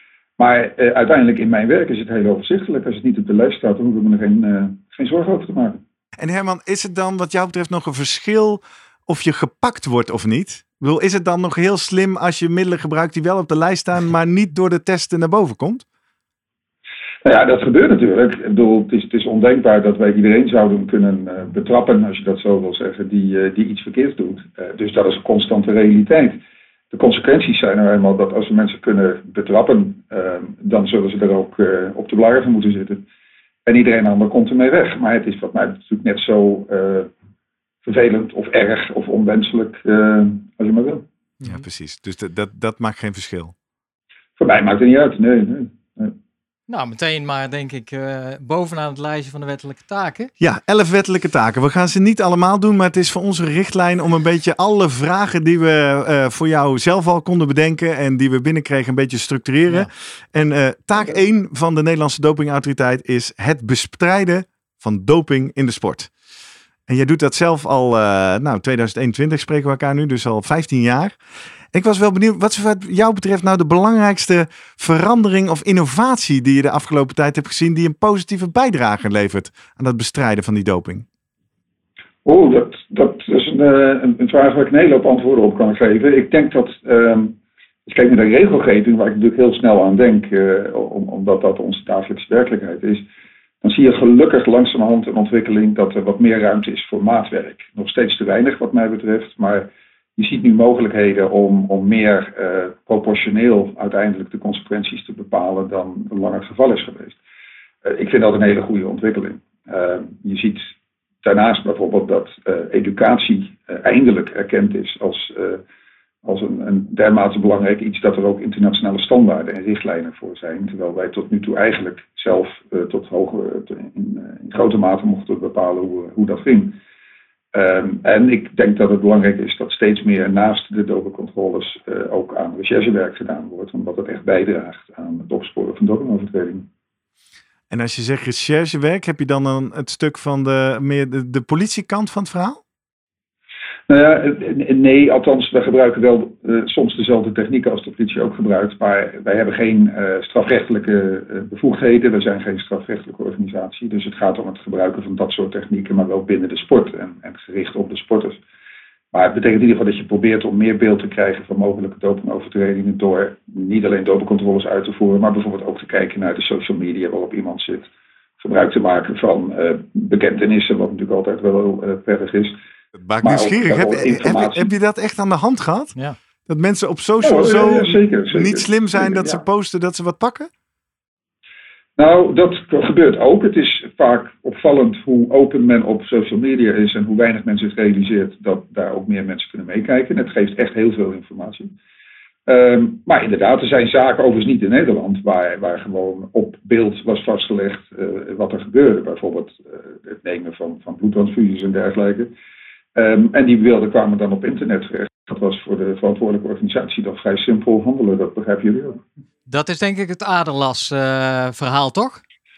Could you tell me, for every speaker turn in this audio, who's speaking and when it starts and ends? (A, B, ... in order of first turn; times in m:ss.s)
0:00.4-0:05.8 A
0:06.2-0:15.8 B
0:17.2-0:26.4 A
0:26.9-0:33.0 A
0:33.6-0:37.1 A
0:37.8-0:41.0 A
0:41.4-0:43.5 B
0:44.4-0:46.2 A
0:46.7-0:50.3 C
0:50.4-1:06.1 B
1:06.9-1:11.2 B
1:11.7-1:21.0 B
1:22.2-1:33.0 A
1:33.6-1:47.2 A
1:47.8-1:50.7 A
1:51.2-1:55.6 A
1:56.2-2:06.8 A
2:07.5-2:16.7 A
2:17.7-2:22.6 B
2:23.9-2:38.4 A
2:39.1-2:47.9 A
2:48.4-2:52.6 A
2:53.0-2:56.0 B
2:53.2-2:54.7 A
2:56.5-3:00.5 B
2:57.2-2:59.4 A
3:02.0-3:11.7 A
3:12.5-3:22.3 A
3:22.9-3:29.0 A
3:29.5-3:32.2 C